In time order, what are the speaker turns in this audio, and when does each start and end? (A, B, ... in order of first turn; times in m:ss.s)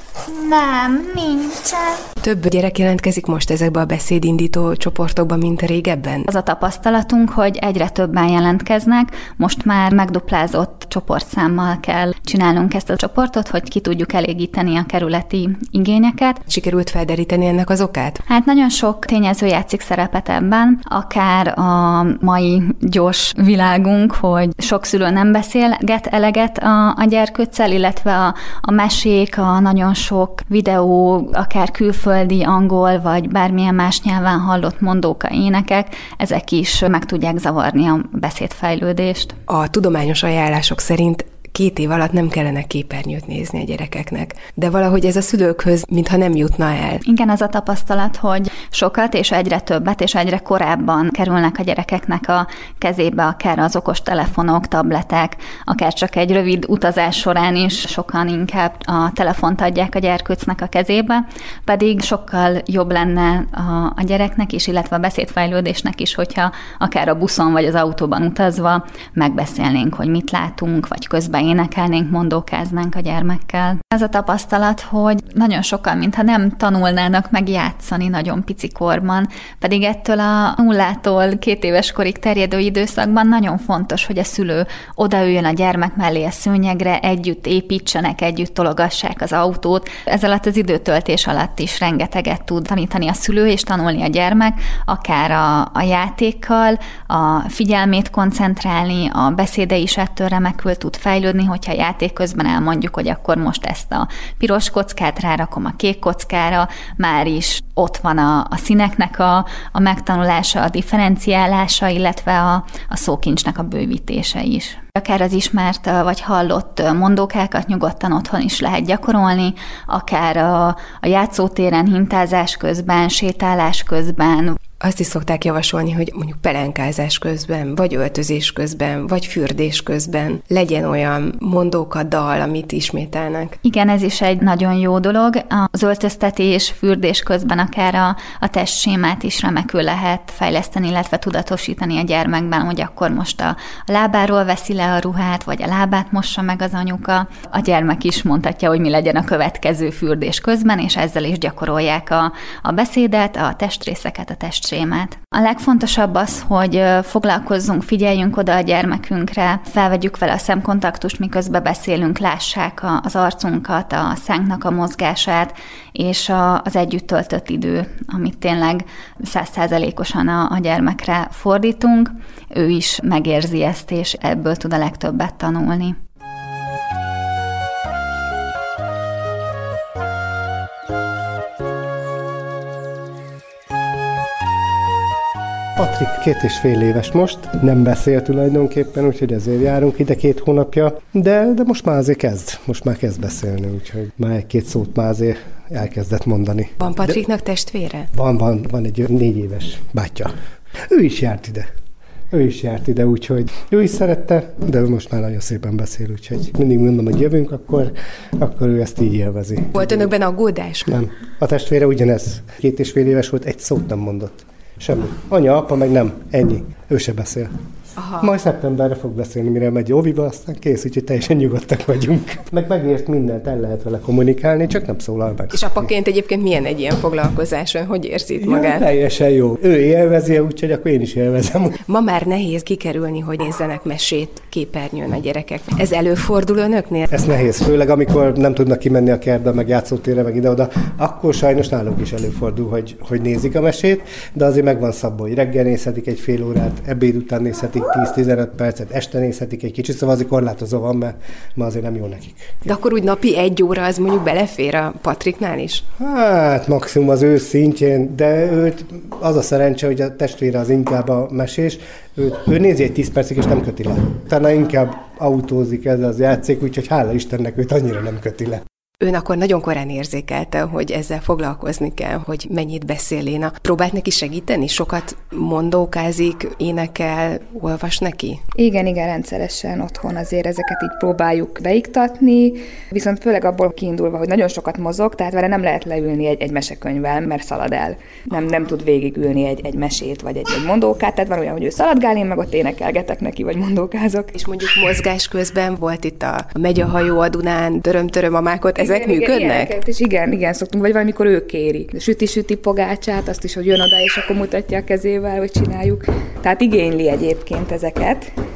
0:00.2-0:02.0 A
0:02.2-0:06.3 B
0:06.3-0:16.4 A
0:16.5-0:18.2 B
0:18.3-0:39.4 A
0:39.5-0:47.0 B
0:47.0-2:04.6 A
2:04.8-2:13.6 B
2:13.6-2:56.0 A
3:05.8-3:17.2 C
3:16.8-3:18.1 B
3:18.1-3:20.3 C
3:20.9-3:21.7 C
3:22.3-3:30.1 C
3:29.7-3:30.9 B
3:30.9-3:37.5 C
3:38.0-3:38.3 B
3:38.2-3:45.9 C
3:45.5-3:48.8 B
3:48.4-3:51.8 C
3:51.9-3:57.1 B
3:57.1-4:12.6 C
4:12.6-4:15.9 B
4:16.0-4:28.6 C
4:29.0-4:38.4 B
4:38.6-4:54.3 D
4:54.3-4:59.7 B
4:58.8-5:08.3 D